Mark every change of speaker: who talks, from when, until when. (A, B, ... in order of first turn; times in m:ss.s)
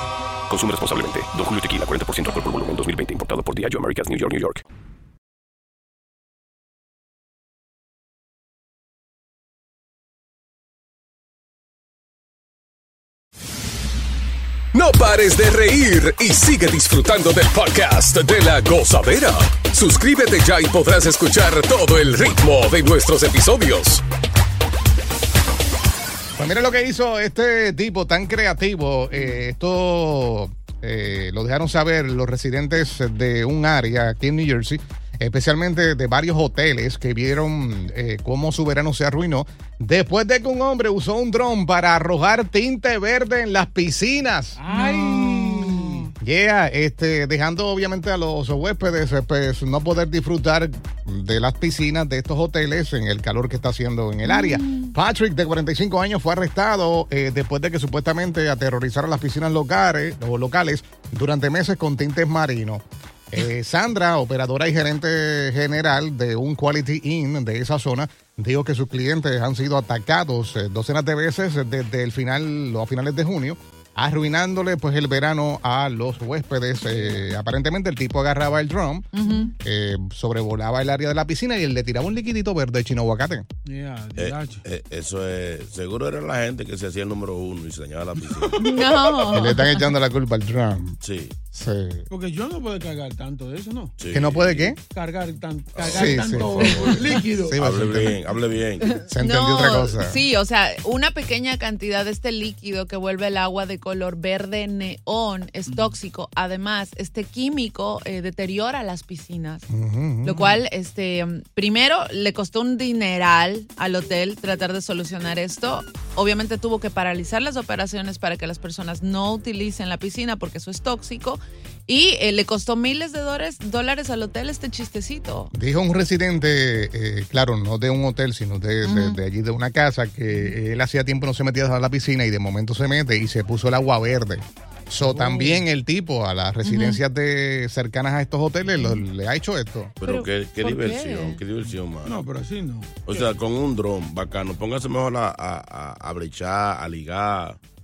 0:00.5-0:04.6 A
0:14.7-0:24.0 B
0:26.4-0:44.6 C
0:44.6-0:46.1 D
0:44.7-0:45.7 E
0:46.2-1:23.4 C
0:54.2-0:54.9 E
1:19.1-1:19.5 E
1:23.6-1:24.6 D
1:24.2-1:28.6 F
1:28.3-1:28.9 D
1:28.6-1:29.9 E
1:29.2-1:31.0 C
1:31.0-1:31.3 F
1:31.5-1:32.1 C
1:32.1-1:34.0 D
1:34.0-1:34.7 F
1:34.1-1:34.8 C
1:34.9-1:37.6 D
1:35.7-1:36.6 F
1:35.8-1:38.2 C
1:37.6-1:38.9 F
1:39.1-1:40.2 C
1:39.2-1:49.6 E
1:45.7-1:45.9 D
1:49.7-1:50.5 C
1:50.2-2:05.5 E
2:05.5-2:20.0 C
2:08.8-2:09.2 E
2:15.0-2:15.6 D
2:16.6-2:17.0 E
2:20.0-2:22.2 F
2:20.0-2:21.4 E
2:22.0-2:23.3 D
2:23.0-2:27.6 F